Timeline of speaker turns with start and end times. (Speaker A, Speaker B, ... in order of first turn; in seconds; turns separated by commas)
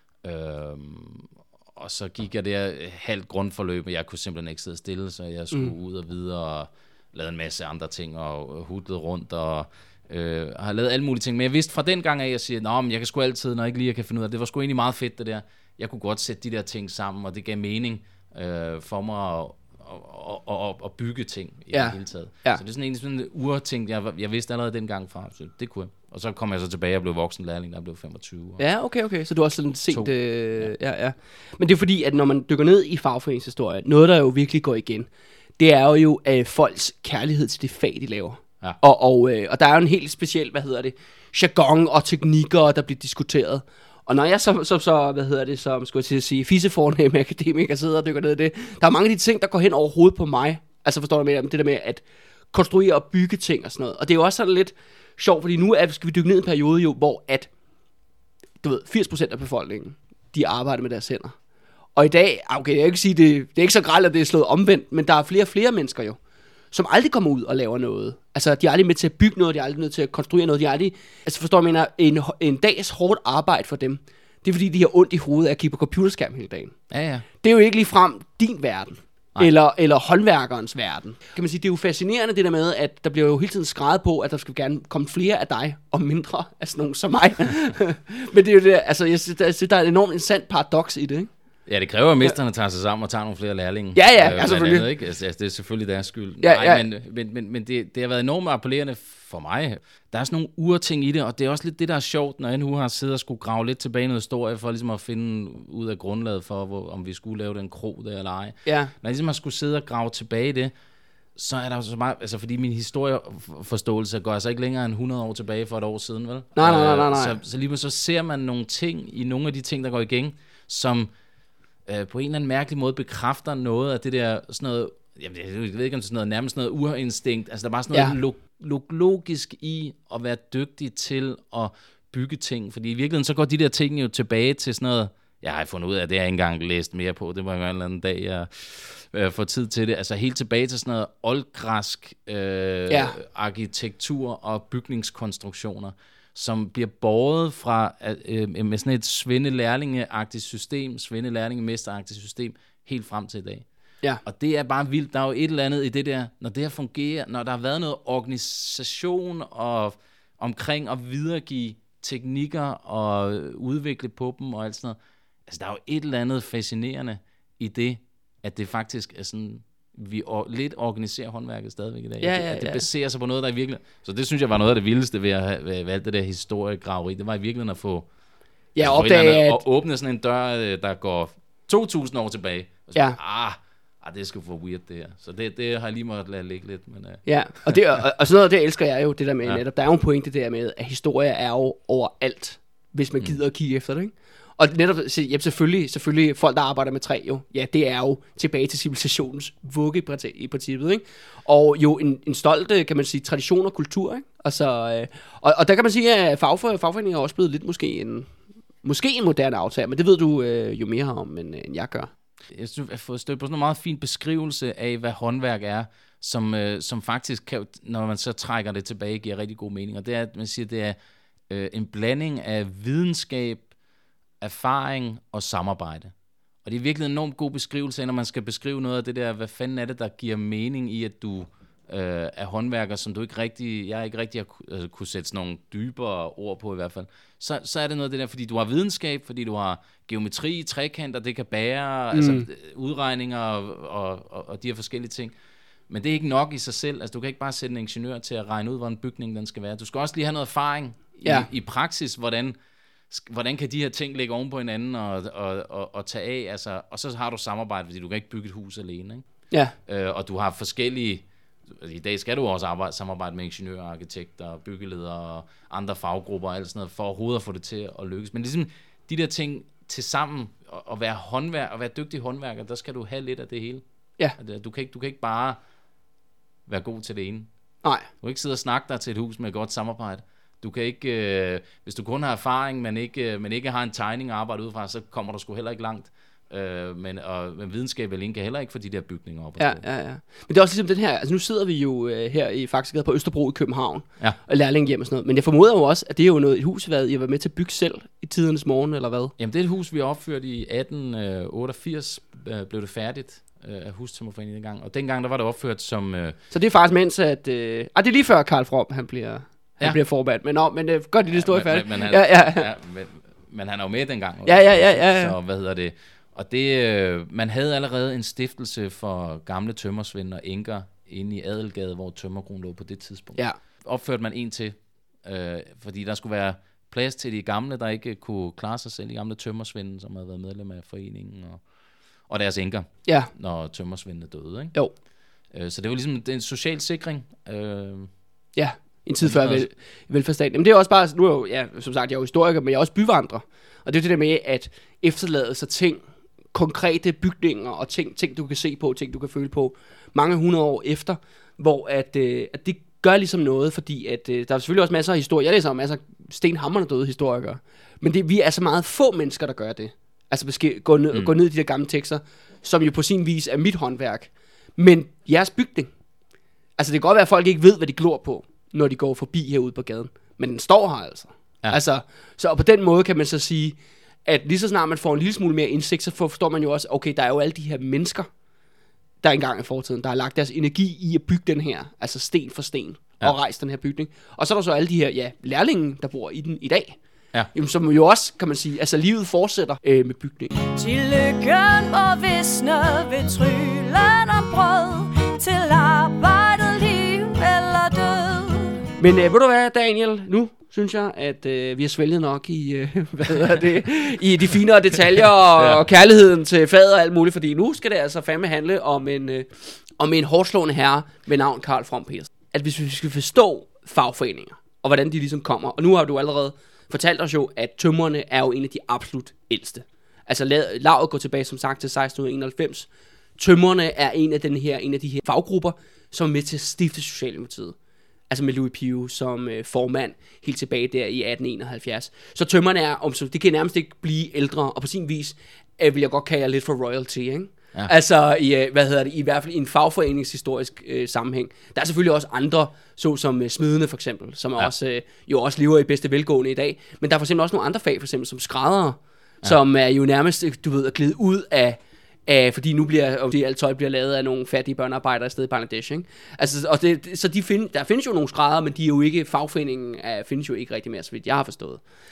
Speaker A: 0.2-28.6, Speaker B: 21.7-22.6, Speaker B: 28.6-35.1, Speaker A: 29.9-30.7, Speaker B: 35.6-57.5, Speaker B: 58.6-61.3, Speaker B: 62.0-66.2, Speaker B: 66.7-76.7, Speaker A: 76.9-77.2, Speaker B: 77.4-91.3, Speaker A: 91.7-110.7, Speaker B: 93.9-94.8, Speaker B: 96.4-96.8, Speaker B: 108.7-108.9, Speaker A: 111.3-121.1, Speaker B: 116.5-117.3, Speaker A: 121.8-153.6, Speaker B: 142.9-143.2, Speaker A: 154.2-178.1, Speaker B: 172.2-172.9, Speaker B: 178.7-179.6, Speaker A: 178.8-187.8, Speaker B: 187.2-208.3, Speaker B: 208.8-212.1, Speaker A: 212.5-221.0, Speaker A: 221.5-223.7, Speaker A: 224.4-226.1, Speaker A: 226.6-245.3, Speaker B: 242.1-242.5, Speaker A: 245.9-252.6, Speaker A: 253.1-259.2, Speaker A: 259.9-273.8, Speaker A: 274.4-275.6, Speaker A: 276.7-277.5, Speaker A: 278.2-289.8, Speaker B: 289.6-299.3, Speaker A: 299.4-306.4, Speaker B: 306.5-312.7, Speaker A: 311.3-331.6, Speaker B: 314.4-315.3, Speaker A: 332.3-334.7, Speaker A: 335.5-338.1, Speaker B: 338.6-346.0, Speaker A: 339.2-339.6, Speaker B: 346.5-365.9, Speaker B: 366.8-378.3, Speaker B: 379.2-387.0, Speaker B: 387.5-390.5, Speaker C: 390.6-398.8, Speaker B: 399.0-427.7, Speaker B: 428.3-461.8